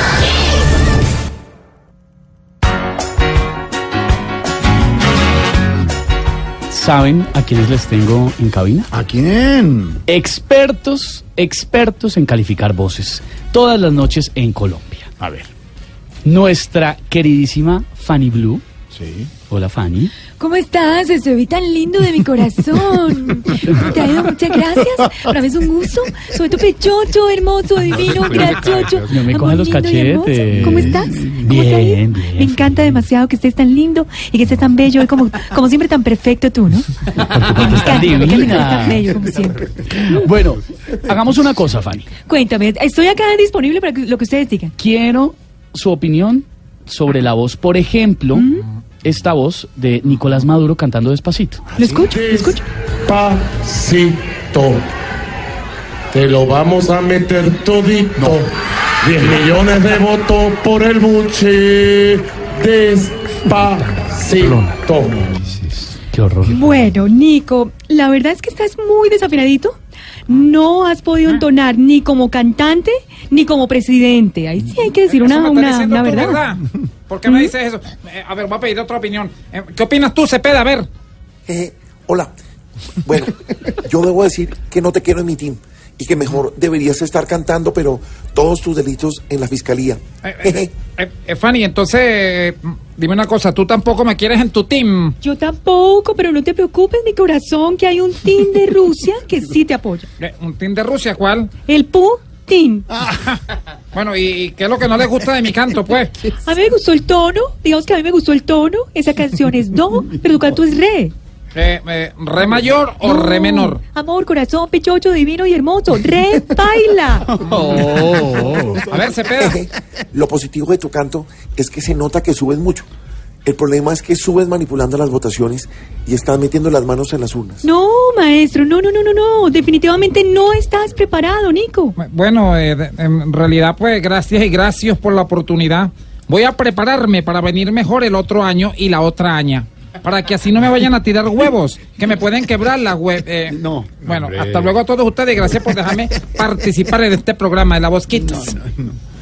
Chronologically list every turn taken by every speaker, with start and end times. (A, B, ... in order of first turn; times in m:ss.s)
0:06.7-0:08.9 A
0:08.9-0:10.0 B
0:10.1-0:15.1 A
0:15.2-0:15.5 B
0:16.2-0:18.6 A
0:18.9-0:19.3 B
0:19.4-0:20.2 A
0:20.3-0:40.3 C
0:28.1-0:28.9 B
0:29.0-0:33.0 A
0:37.2-0:39.0 A
0:39.8-0:42.1 A
0:42.2-0:44.7 C
0:44.8-0:48.4 A
0:48.3-0:48.7 C
0:49.0-0:51.7 A
0:51.7-0:52.6 C
0:51.8-0:52.0 B
0:52.1-0:54.8 D
0:56.1-0:58.5 D
0:59.0-1:05.2 D
1:05.7-1:06.6 A
1:06.4-1:16.4 C
1:15.0-1:20.9 E
1:17.2-1:17.5 C
1:21.5-1:22.3 F
1:23.0-1:30.7 F
1:30.2-1:35.2 E
1:35.2-1:40.1 C
1:40.2-1:41.5 E
1:41.6-1:42.9 C
1:43.9-1:46.1 E
1:46.4-1:51.1 C
1:51.5-1:53.8 E
1:53.0-1:57.4 C
1:57.4-1:59.6 E
1:57.6-1:58.8 B
1:59.4-2:02.9 F
2:03.4-2:07.7 F
2:07.6-2:12.0 C
2:12.0-2:28.6 E
2:23.5-2:24.7 B
2:28.3-2:28.9 B